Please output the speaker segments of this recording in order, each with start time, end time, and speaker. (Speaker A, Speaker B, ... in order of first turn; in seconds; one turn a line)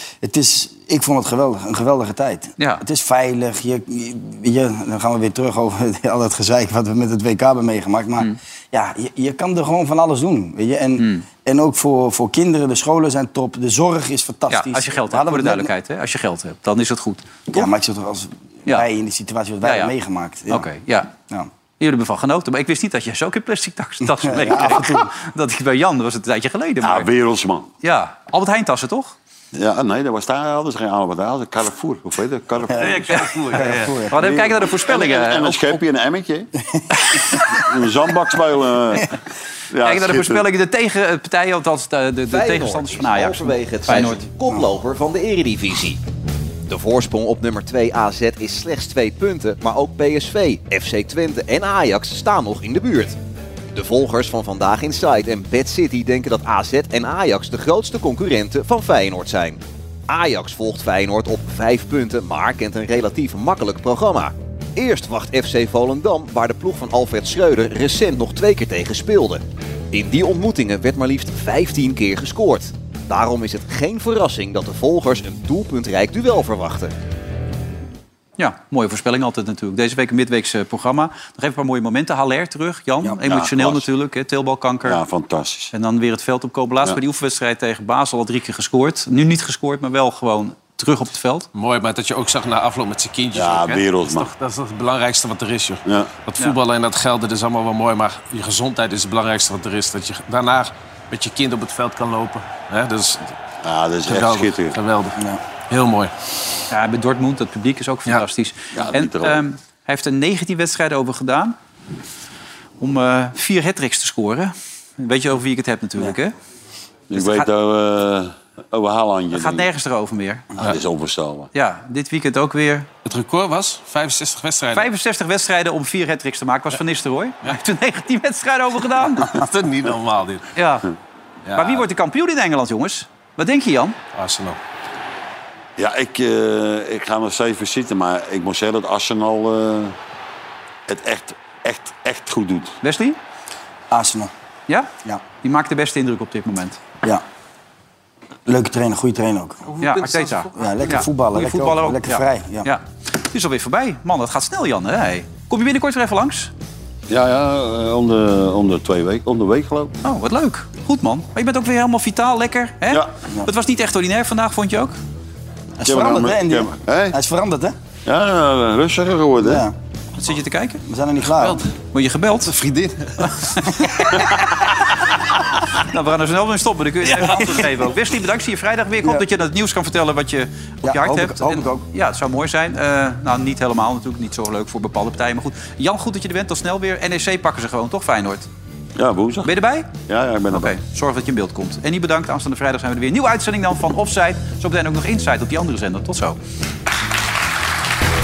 Speaker A: 0.2-15.7
Speaker B: 11.0-11.2
Speaker B: 14.5-17.7
Speaker A: 17.5-20.7
Speaker B: 19.6-19.9
Speaker B: 20.5-21.1
Speaker B: 21.8-27.1
Speaker A: 24.2-25.1
Speaker C: 26.8-27.7
Speaker B: 27.8-29.1
Speaker C: 29.5-33.2
Speaker A: 32.7-34.2
Speaker D: 32.7-34.0
Speaker B: 34.1-35.8
Speaker C: 34.2-36.5
Speaker C: 37.1-39.2
Speaker C: 39.7-40.4
Speaker B: 39.8-44.2
Speaker E: 42.3-46.0
Speaker E: 46.7-53.2
Speaker E: 53.7-76.9
Speaker B: 78.4-85.0
Speaker C: 83.2-83.9
Speaker C: 84.8-85.7
Speaker B: 85.7-91.5
Speaker D: 91.5-103.3
Speaker C: 93.3-94.3
Speaker C: 95.9-96.1
Speaker C: 103.6-104.8
Speaker D: 104.1-106.1
Speaker B: 106.7-111.6
Speaker C: 108.7-109.4
Speaker B: 112.8-116.3
Speaker C: 117.1-119.7
Speaker B: 117.1-117.5
Speaker B: 119.3-120.5
Speaker C: 120.6-121.5
Speaker B: 121.5-122.9
Speaker D: 123.0-124.9
Speaker B: 124.7-129.4
Speaker D: 129.2-130.5
Speaker B: 130.6-130.9
Speaker D: 131.5-131.8
Speaker B: 131.6-134.0
Speaker D: 134.1-134.6
Speaker C: 135.8-140.0
Speaker C: 140.9-142.8
Speaker B: 142.8-143.2
Speaker A: 143.9-144.3
Speaker B: 144.7-146.8
Speaker A: 148.5-149.6
Speaker D: 149.7-151.1
Speaker B: 149.8-156.5
Speaker A: 150.5-152.7
Speaker C: 157.1-159.9
Speaker B: 160.0-165.0
Speaker A: 165.8-167.8
Speaker C: 165.8-167.2
Speaker C: 168.1-169.7
Speaker A: 169.4-169.8
Speaker B: 170.2-170.8
Speaker A: 170.8-171.7
Speaker B: 171.4-172.6
Speaker D: 172.5-173.9
Speaker B: 173.2-174.7
Speaker B: 175.8-188.5
Speaker D: 177.2-177.7
Speaker A: 180.8-181.8
Speaker C: 189.0-190.7
Speaker B: 189.4-189.9
Speaker B: 190.5-196.4